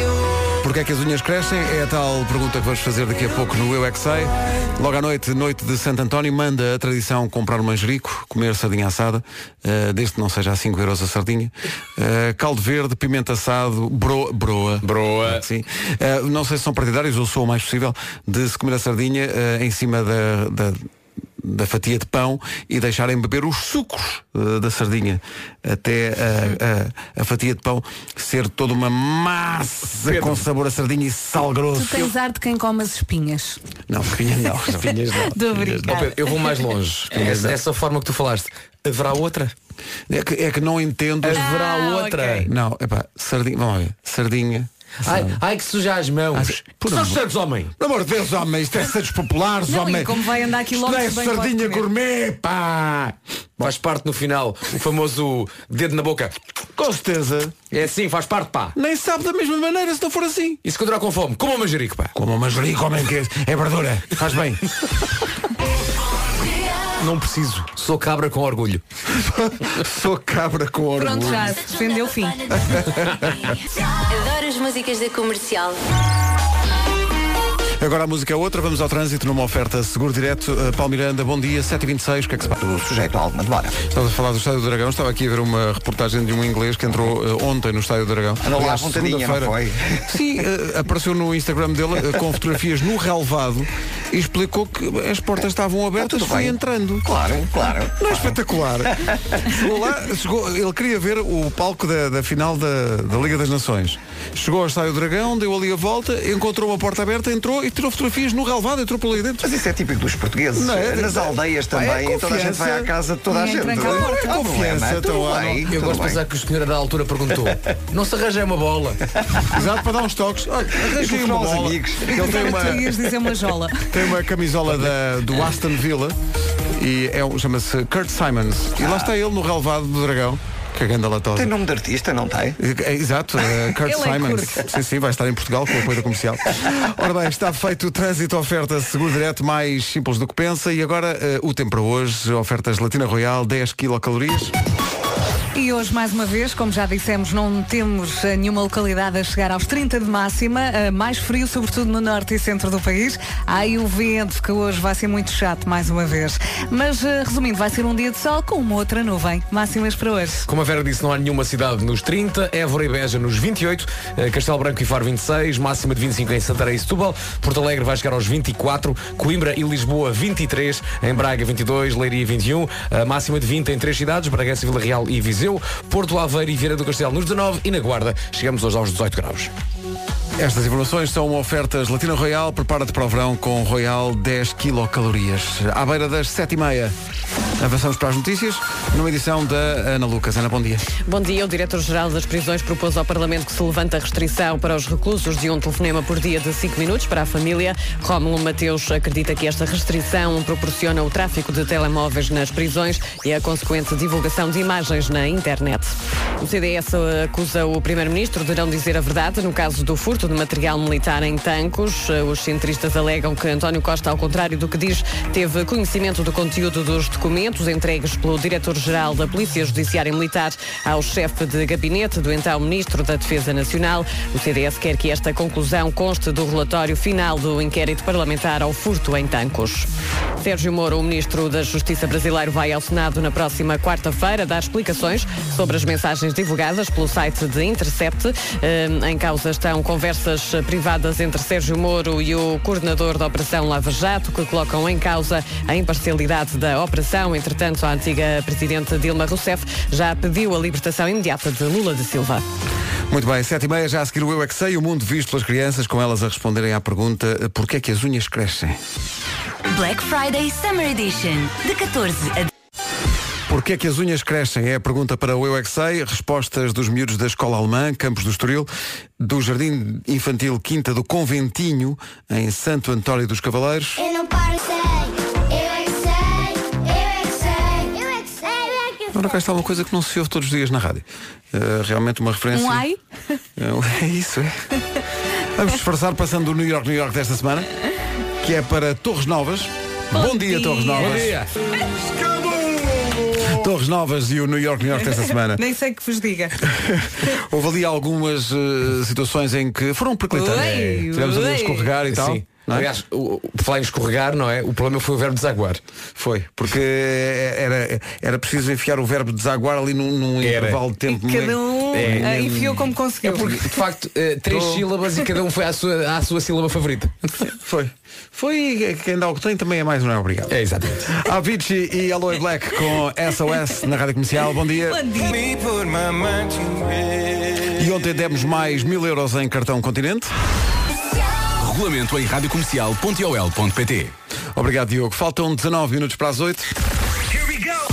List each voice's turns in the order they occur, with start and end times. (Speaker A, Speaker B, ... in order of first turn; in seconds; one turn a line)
Speaker A: 0.6-32.1
Speaker B: 14.8-15.4
Speaker B: 30.1-30.4
Speaker C: 31.7-33.6
Speaker A: 33.9-36.0
Speaker B: 34.6-39.5
Speaker C: 35.1-36.6
Speaker A: 37.1-37.6
Speaker A: 40.1-41.5
Speaker B: 41.2-42.5
Speaker C: 41.4-42.5
Speaker A: 42.5-45.4
Speaker B: 45.0-47.7
Speaker A: 46.3-47.2
Speaker A: 47.8-50.1
Speaker C: 49.7-51.9
Speaker A: 50.7-53.1
Speaker B: 52.7-53.0
Speaker B: 53.6-56.4
Speaker A: 56.8-57.6
Speaker B: 57.7-58.7
Speaker A: 58.8-60.6
Speaker B: 60.6-62.1
Speaker A: 62.1-64.7
Speaker B: 67.0-68.8
Speaker A: 69.1-71.6
Speaker C: 71.0-72.8
Speaker A: 72.6-73.5
Speaker D: 73.9-75.8
Speaker A: 77.8-82.6
Speaker E: 82.6-83.8
Speaker A: 83.9-97.1
Speaker E: 88.4-90.1
Speaker E: 96.0-98.4
Speaker A: 98.0-109.5
Speaker E: 98.9-99.6
Speaker E: 109.4-116.2
Speaker A: 110.5-112.9
Speaker C: 113.3-114.4
Speaker A: 113.7-115.7
Speaker B: 115.7-119.1
Speaker A: 119.5-123.0
Speaker E: 120.8-122.8
Speaker C: 122.1-123.9
Speaker A: 123.9-126.2
Speaker A: 126.7-131.5
Speaker E: 131.3-132.6
Speaker A: 132.6-144.5
Speaker C: 133.8-134.7
Speaker C: 145.5-160.5
Speaker B: 160.5-179.5
Speaker A: 180.4-186.9
Speaker A: 187.6-190.9
Speaker F: 191.1-229.9
Speaker F: 230.4-252.4
Speaker A: 253.1-258.8
Speaker D: 259.7-262.5
Speaker A: 263.5-274.1
Speaker G: 274.0-279.4
Speaker A: 279.1-282.9
Speaker C: 282.5-283.4
Speaker A: 283.6-284.6
Speaker A: 285.5-287.7
Speaker A: 288.4-291.4
Speaker C: 290.1-291.3
Speaker B: 291.0-291.5
Speaker B: 292.6-293.5
Speaker A: 293.4-295.6
Speaker C: 295.5-296.6
Speaker A: 296.7-302.9
Speaker C: 300.3-301.9
Speaker B: 302.1-305.8
Speaker A: 306.2-312.9
Speaker B: 310.4-310.8
Speaker C: 311.1-313.8
Speaker B: 311.9-312.3
Speaker B: 313.2-317.5
Speaker A: 314.5-314.9
Speaker A: 317.4-325.1
Speaker B: 320.5-321.1
Speaker C: 324.9-325.4
Speaker H: 325.3-327.7
Speaker A: 327.7-330.3
Speaker H: 331.6-334.1
Speaker A: 334.6-336.7